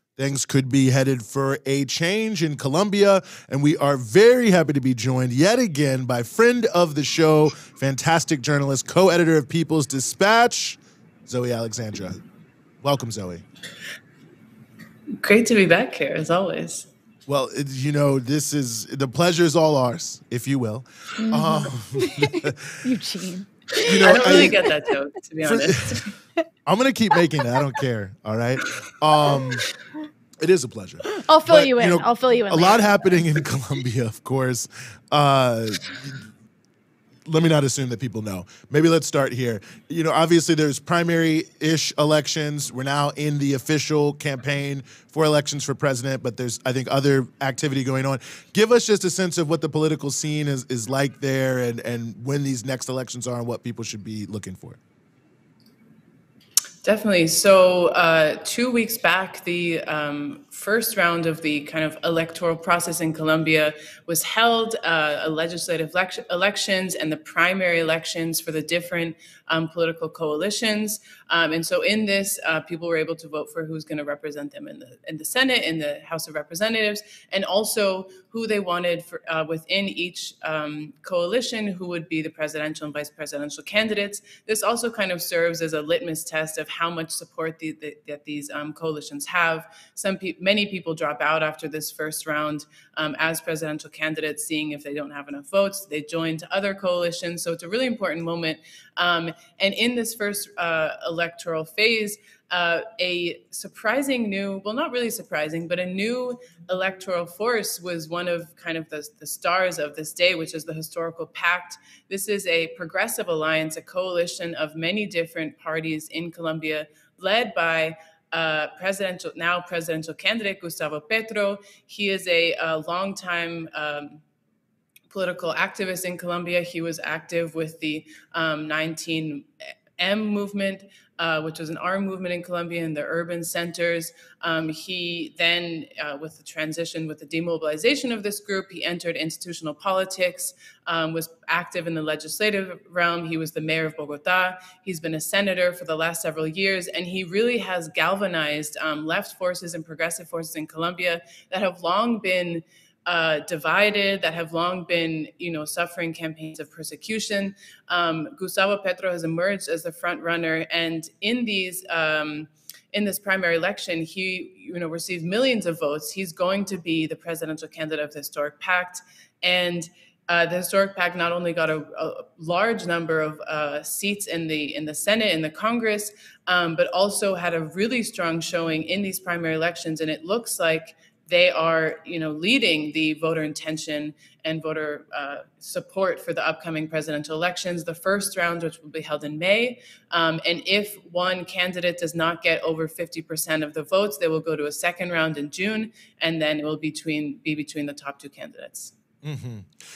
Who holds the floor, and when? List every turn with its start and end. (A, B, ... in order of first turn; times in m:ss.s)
0:00.2-0:12.2 A
0:12.8-0:13.4 A
0:15.2-0:16.9 B
0:17.3-0:22.8 A
0:21.2-0:24.7 C
0:23.8-0:24.6 A
0:24.0-0:26.1 B
0:25.4-0:26.0 A
0:26.6-0:29.6 A
0:27.2-0:27.6 C
0:30.4-0:36.3 A
0:31.2-0:33.2 C
0:37.2-0:54.8 A
0:56.8-2:04.2 B
2:05.1-2:09.5 B
2:10.0-3:18.9 B
3:19.2-3:19.7 A